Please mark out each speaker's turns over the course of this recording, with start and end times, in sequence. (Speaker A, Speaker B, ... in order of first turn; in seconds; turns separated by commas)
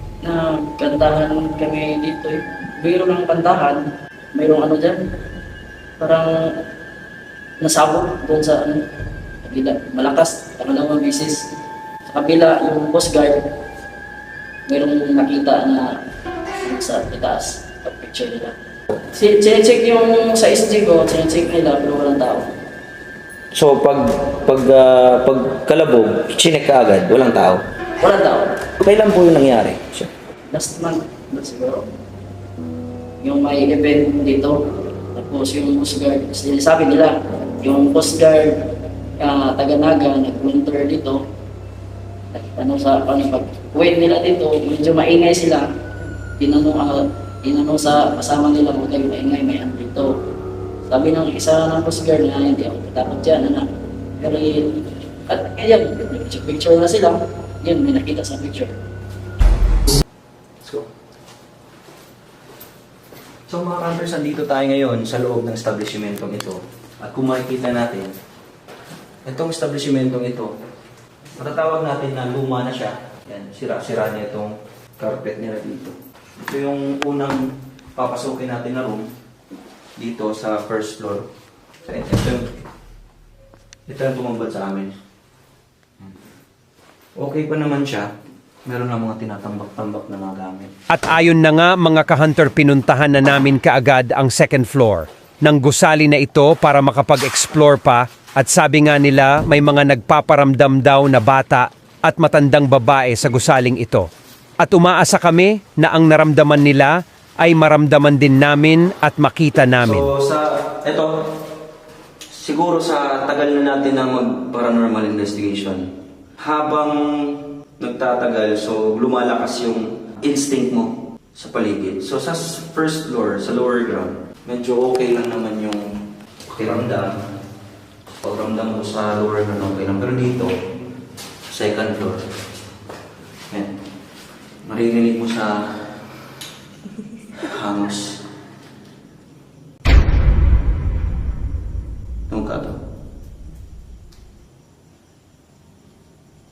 Speaker A: 0.2-3.8, Speaker A: 4.3-5.0, Speaker A: 6.0-6.3, Speaker A: 7.6-8.8, Speaker A: 9.4-11.5, Speaker A: 12.1-13.4, Speaker A: 14.7-15.9, Speaker A: 16.6-18.5, Speaker A: 19.1-22.5, Speaker B: 23.5-27.6, Speaker A: 28.0-28.6, Speaker B: 28.8-30.1, Speaker A: 30.5-31.8, Speaker A: 33.2-34.6, Speaker A: 35.1-38.6, Speaker A: 39.2-41.2, Speaker A: 42.3-45.7, Speaker A: 46.4-50.1, Speaker A: 50.9-53.7, Speaker A: 54.2-58.7, Speaker B: 60.6-60.9, Speaker B: 63.5-68.1, Speaker B: 69.2-70.5, Speaker B: 71.4-77.4, Speaker B: 78.0-79.1, Speaker B: 80.0-81.3, Speaker B: 81.8-82.5, Speaker B: 83.9-84.9, Speaker B: 87.2-88.1, Speaker B: 88.7-90.7, Speaker C: 90.9-104.1, Speaker C: 104.6-110.1, Speaker B: 109.8-111.2, Speaker B: 112.3-115.9, Speaker B: 116.4-125.9, Speaker B: 126.5-127.2, Speaker B: 128.2-130.5, Speaker B: 131.5-132.2, Speaker B: 134.7-135.8, Speaker B: 137.4-138.2, Speaker B: 142.3-142.8